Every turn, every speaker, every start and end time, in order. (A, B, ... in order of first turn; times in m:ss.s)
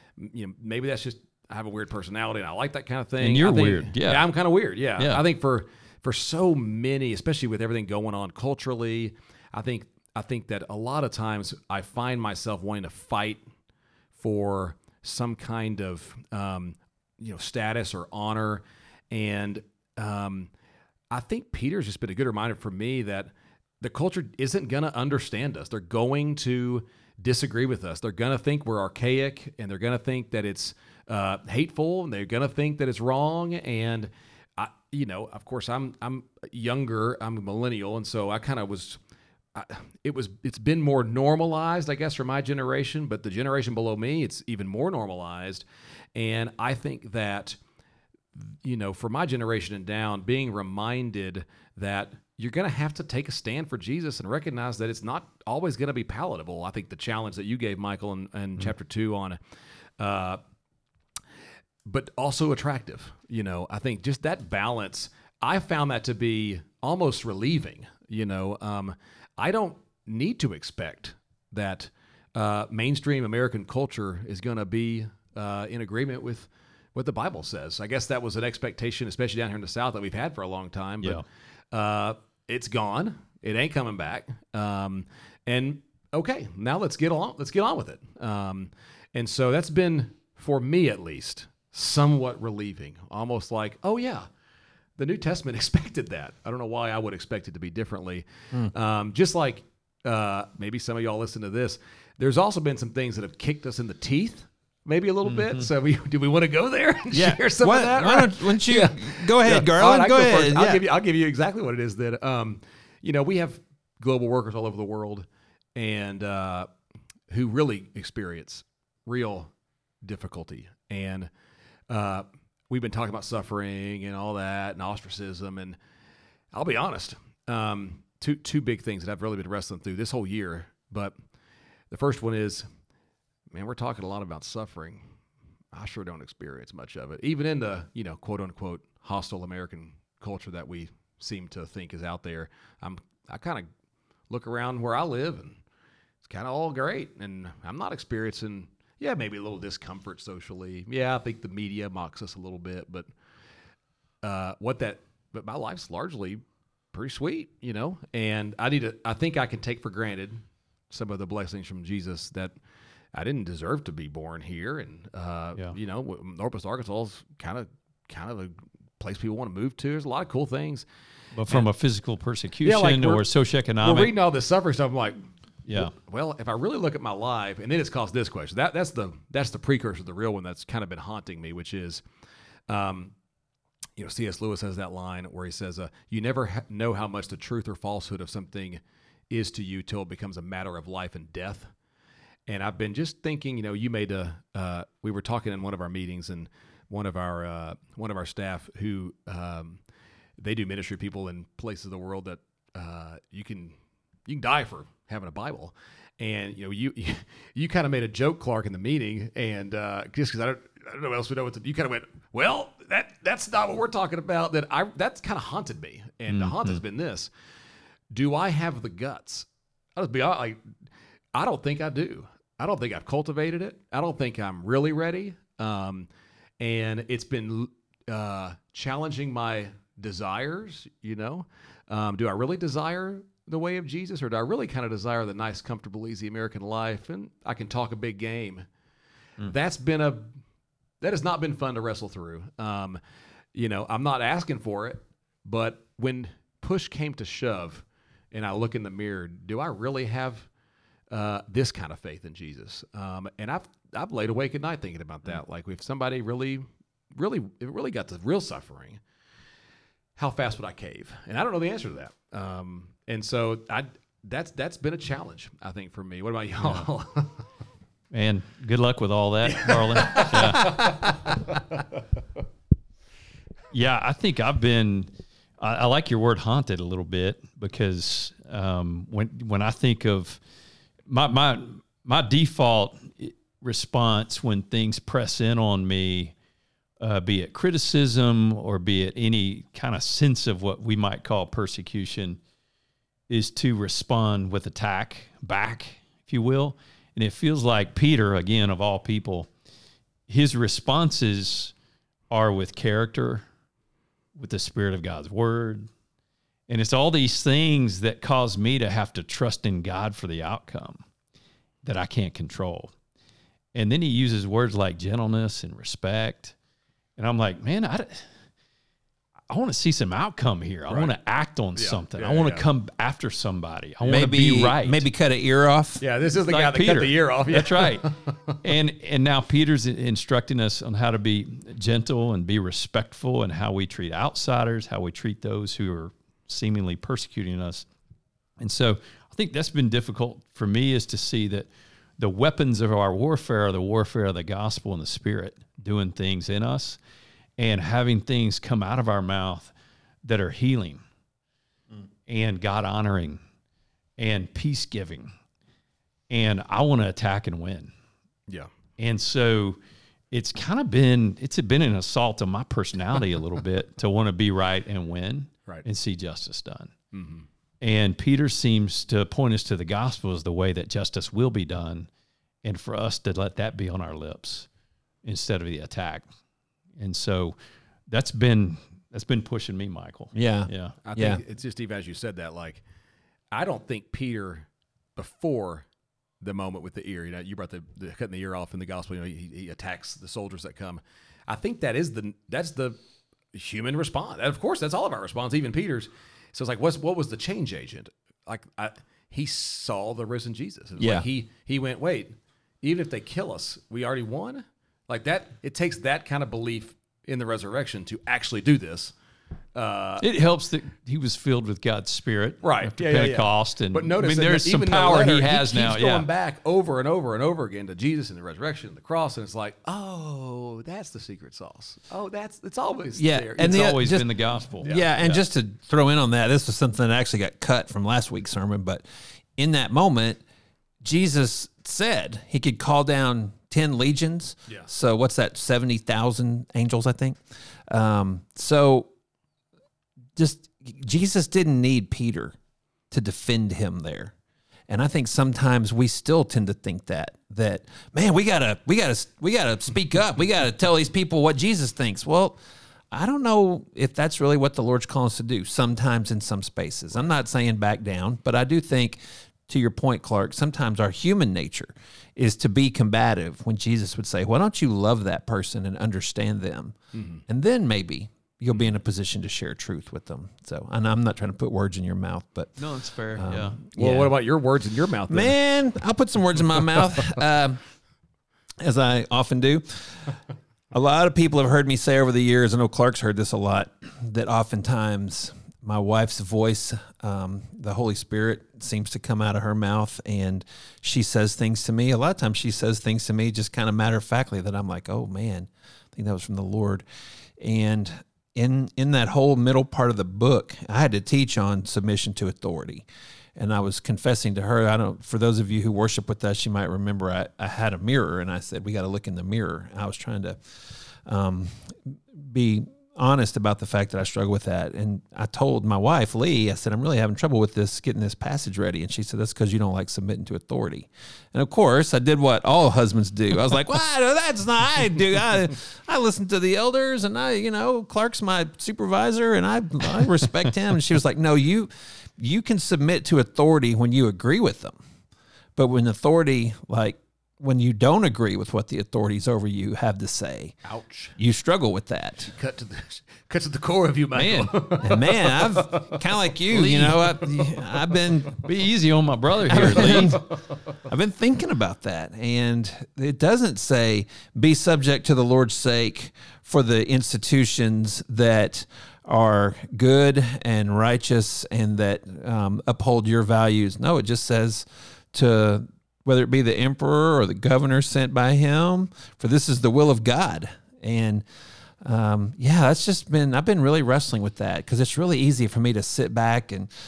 0:00.2-0:13.4 A
0:03.2-0:04.3 B
0:05.0-0:05.2 B
0:14.1-0:20.5 A
0:21.1-0:39.0 A
0:39.5-0:47.6 A
0:48.4-0:59.4 A
1:00.0-1:00.4 A
1:01.8-1:34.3 A
1:35.0-1:56.7 A
1:45.2-1:45.7 B
1:47.1-1:50.8 C
1:57.3-2:01.3 A
2:01.9-2:05.8 A
2:06.5-2:11.2 A
2:11.9-2:12.7 A
2:13.5-2:15.1 A
2:15.7-2:23.7 A
2:24.3-2:25.6 A
2:26.2-2:33.1 A
2:34.2-2:36.4 A
2:36.9-2:42.6 A
2:43.1-2:50.8 A
2:51.3-2:54.1 B
2:52.6-2:53.2 A
2:53.8-2:55.2 A
2:55.6-2:55.9 B
2:55.7-3:02.0 A
3:02.7-3:03.1 A
3:04.0-3:11.7 A
3:12.5-3:19.8 A
3:20.4-3:37.3 A
3:36.3-3:36.8 B
3:38.1-3:40.6 A
3:41.3-3:46.1 A
3:46.6-3:58.7 A
3:59.4-4:00.3 A
4:01.0-4:03.0 A
4:03.5-4:10.5 A
4:11.1-4:19.0 A
4:20.2-4:27.4 A
4:28.1-4:31.3 B
4:29.4-4:31.8 A
4:33.7-4:40.4 B
4:41.1-4:46.3 B
4:47.0-4:52.4 B
4:53.3-4:59.5 B
5:00.3-5:01.7 B
5:02.3-5:03.4 B
5:04.4-5:05.9 B
5:06.7-5:11.0 B
5:11.8-5:12.9 B
5:13.7-5:16.5 B
5:17.2-5:18.3 B
5:19.5-5:25.0 B
5:20.9-5:21.1 A
5:21.8-5:22.6 A
5:24.0-5:26.0 C
5:26.0-5:28.6 A
5:26.5-5:37.9 B
5:38.6-5:41.7 B
5:42.2-5:47.0 B
5:47.6-5:49.7 B
5:50.2-5:51.0 B
5:52.3-5:53.4 B
5:54.2-5:55.3 B
5:56.3-5:57.9 B
5:59.0-5:59.8 B
6:00.3-6:06.9 B
6:07.1-6:07.5 A
6:07.8-6:12.1 B
6:12.6-6:14.7 B
6:15.2-6:16.3 B
6:17.0-6:17.6 B
6:18.1-6:21.0 B
6:20.3-6:21.4 C
6:21.0-6:22.8 A
6:23.5-6:25.9 A
6:26.4-6:33.0 A
6:33.5-6:49.1 A
6:41.0-6:41.2 C
6:49.7-6:50.2 A
6:50.2-6:56.2 B
6:52.6-7:04.0 A
7:03.2-7:04.3 C
7:03.6-7:05.4 B
7:04.8-7:09.0 C
7:04.8-7:05.1 A
7:09.6-7:10.4 C
7:11.0-7:19.1 C
7:20.4-7:22.6 C
7:23.1-7:24.3 C
7:24.9-7:32.6 C
7:33.1-7:46.9 C
7:47.1-7:47.4 A
7:47.5-7:52.8 C
7:52.8-7:53.8 B
7:53.4-7:54.3 C
7:53.9-7:55.6 A
7:55.3-7:57.8 C
7:58.8-8:00.4 C
8:00.9-8:17.0 C
8:17.6-8:55.0 C
8:55.8-9:00.8 C
9:00.8-9:01.3 A
9:01.4-9:02.5 C
9:02.5-9:07.8 A
9:04.3-9:04.9 B
9:05.0-9:08.6 C
9:08.6-9:10.4 B
9:09.6-9:31.4 C
9:09.8-9:10.4 A
9:32.0-9:36.9 C